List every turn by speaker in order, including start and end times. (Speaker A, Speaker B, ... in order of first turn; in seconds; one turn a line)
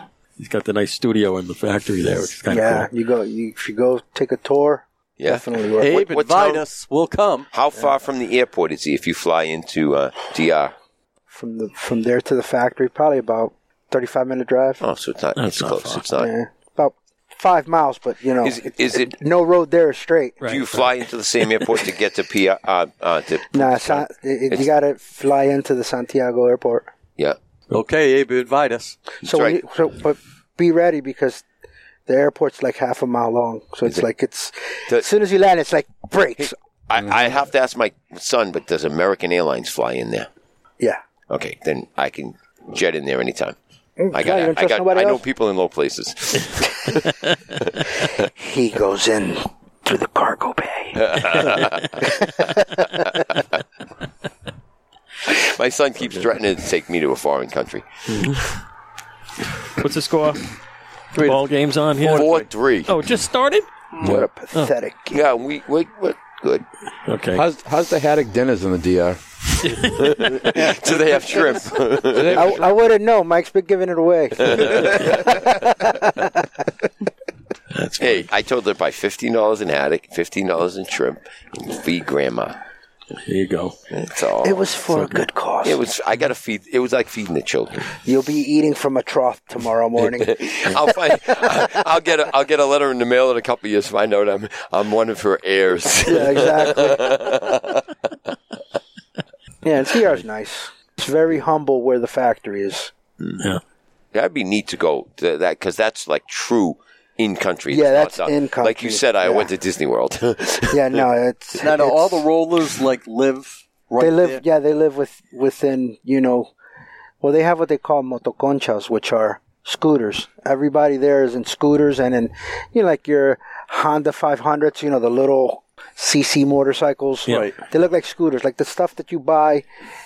Speaker A: 0.4-2.9
Speaker B: 2.5-6.1
Speaker C: 5.2-5.5
Speaker D: 5.8-7.5
Speaker C: 6.0-6.6
Speaker C: 7.5-10.7
Speaker B: 11.3-14.8
Speaker C: 14.8-16.3
Speaker A: 15.4-16.0
Speaker B: 16.2-20.8
Speaker C: 18.4-19.1
Speaker C: 20.4-24.7
Speaker B: 23.5-26.9
Speaker D: 27.7-29.0
Speaker B: 29.2-31.4
Speaker C: 29.2-29.6
Speaker B: 32.1-36.5
Speaker C: 36.4-40.3
Speaker C: 41.3-43.5
Speaker B: 44.0-45.2
Speaker C: 44.1-47.1
Speaker B: 48.2-53.0
Speaker C: 51.1-52.0
Speaker C: 55.3-58.4
Speaker A: 58.1-58.5
Speaker A: 59.8-60.4
Speaker D: 61.1-61.5
Speaker A: 61.2-62.3
Speaker D: 62.0-62.5
Speaker C: 62.1-62.9
Speaker A: 62.9-64.7
Speaker B: 64.0-65.2
Speaker C: 65.1-66.7
Speaker A: 67.1-67.4
Speaker E: 67.3-69.2
Speaker C: 69.7-72.6
Speaker E: 72.1-72.6
Speaker B: 72.3-76.6
Speaker C: 74.5-75.2
Speaker A: 77.7-78.3
Speaker C: 78.0-82.6
Speaker A: 83.2-83.8
Speaker C: 83.9-84.6
Speaker B: 84.4-85.8
Speaker A: 84.9-85.2
Speaker C: 85.6-87.9
Speaker B: 88.0-91.7
Speaker C: 90.0-97.8
Speaker B: 96.1-97.4
Speaker B: 99.6-102.9
Speaker C: 104.1-111.1
Speaker B: 107.7-109.5
Speaker B: 110.7-112.3
Speaker D: 111.5-114.4
Speaker B: 114.0-116.5
Speaker B: 117.2-129.6
Speaker D: 127.3-127.6